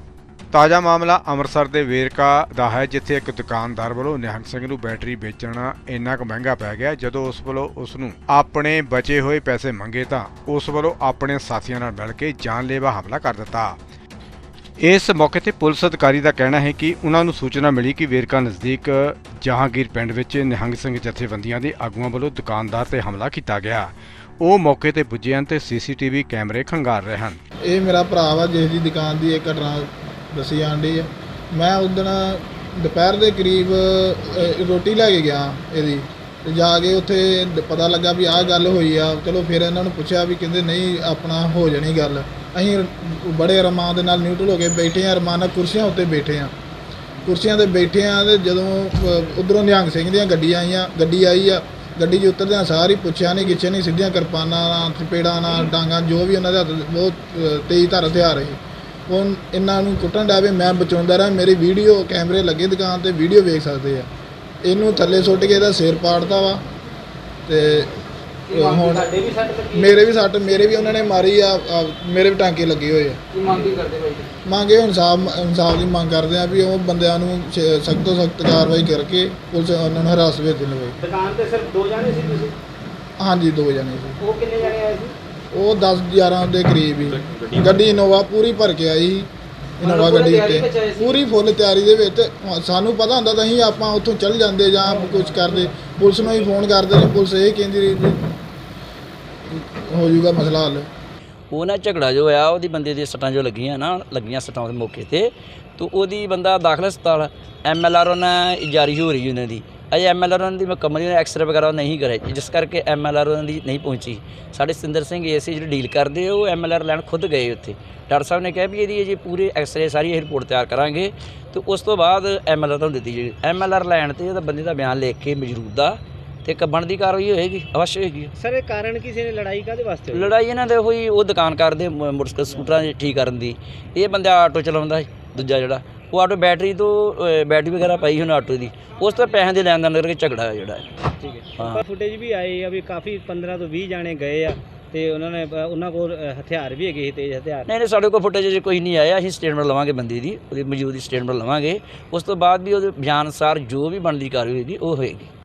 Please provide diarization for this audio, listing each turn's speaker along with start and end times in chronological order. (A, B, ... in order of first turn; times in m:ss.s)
0:00.5-0:13.8 A
0:14.8-0:27.4 A
0:27.6-0:46.5 B
0:47.2-1:04.1 B
1:04.6-1:06.6 B
1:07.5-1:07.9 B
1:08.5-1:09.9 C
1:08.5-1:09.1 B
1:09.7-1:13.2 B
1:13.4-1:14.2 C
1:14.5-1:21.0 B
1:21.1-1:22.5 C
1:23.2-1:24.2 B
1:24.2-1:25.1 C
1:25.5-1:29.3 B
1:29.8-1:38.2 B
1:29.9-1:31.1 C
1:39.5-1:40.9 B
1:41.5-2:08.3 D
2:08.4-2:10.3 C
2:10.1-2:20.9 D
2:21.2-2:27.7 C
2:21.6-2:21.8 D
2:27.7-2:35.3 D